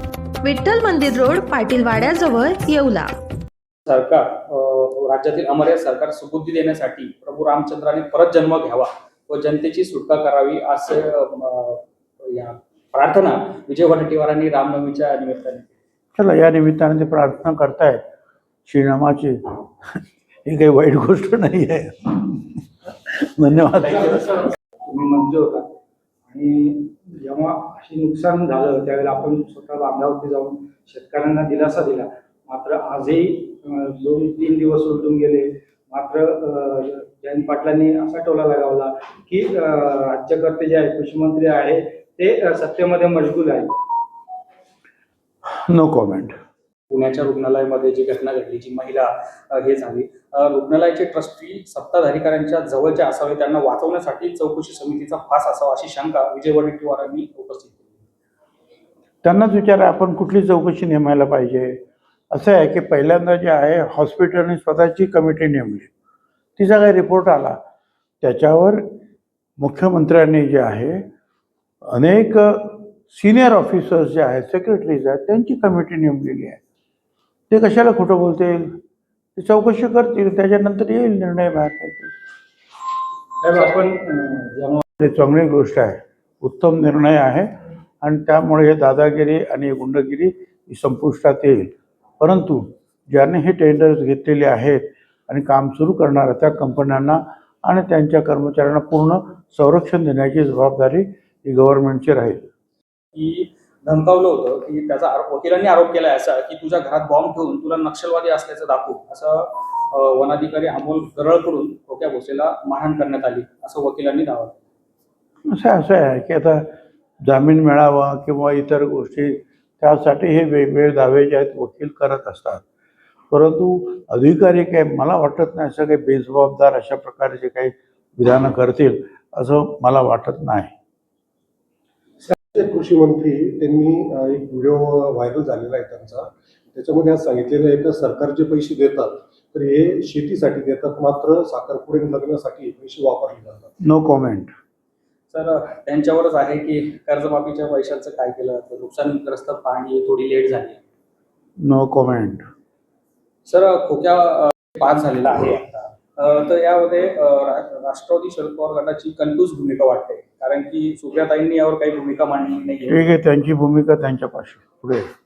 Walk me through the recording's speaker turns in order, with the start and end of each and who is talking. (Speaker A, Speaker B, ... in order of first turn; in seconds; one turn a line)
Speaker A: 0.4-3.1
Speaker B: 3.9-15.7
Speaker C: 16.1-18.0
Speaker C: 18.7-19.4
Speaker C: 20.4-24.4
Speaker D: 23.9-24.3
Speaker D: 24.8-25.7
Speaker D: 26.3-43.7
Speaker C: 45.6-46.3
Speaker B: 46.9-58.0
Speaker C: 59.2-61.8
Speaker C: 62.3-65.9
Speaker C: 66.6-67.6
Speaker C: 68.2-68.8
Speaker C: 69.6-71.0
Speaker C: 71.9-76.6
Speaker C: 77.5-78.8
Speaker C: 79.3-82.1
Speaker D: 83.4-84.8
Speaker C: 85.0-87.5
Speaker C: 88.0-102.5
Speaker B: 103.1-114.6
Speaker C: 115.5-116.7
Speaker C: 117.2-122.6
Speaker C: 123.3-130.7
Speaker E: 132.2-143.7
Speaker C: 143.8-144.5
Speaker B: 145.3-150.8
Speaker C: 151.6-152.4
Speaker B: 153.4-163.0
Speaker C: 162.9-165.1